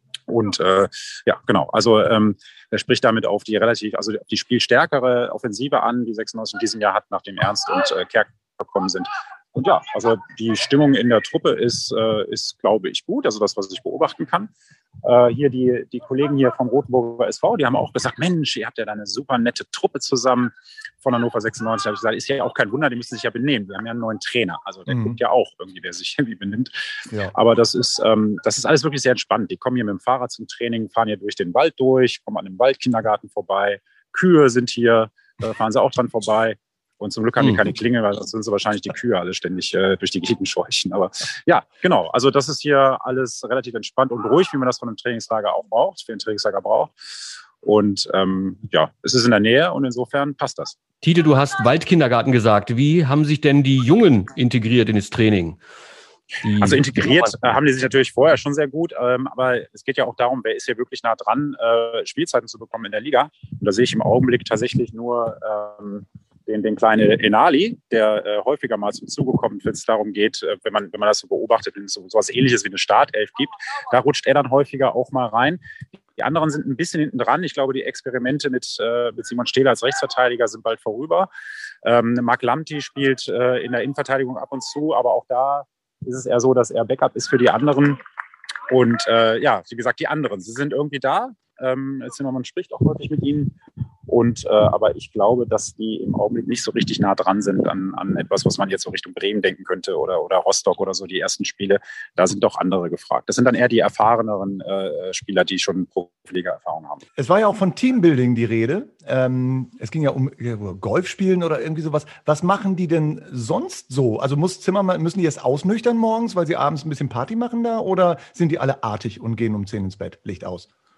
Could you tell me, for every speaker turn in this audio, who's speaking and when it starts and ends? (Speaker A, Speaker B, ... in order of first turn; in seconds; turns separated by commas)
Speaker A: 0.3-14.5, Speaker A: 15.0-26.7, Speaker B: 24.9-25.2, Speaker A: 27.3-46.9, Speaker A: 47.6-50.8, Speaker C: 51.0-55.6, Speaker C: 56.4-57.3, Speaker A: 56.6-75.6, Speaker A: 76.2-81.3, Speaker A: 81.8-88.0, Speaker A: 88.7-93.5, Speaker A: 94.1-107.0, Speaker B: 107.2-120.7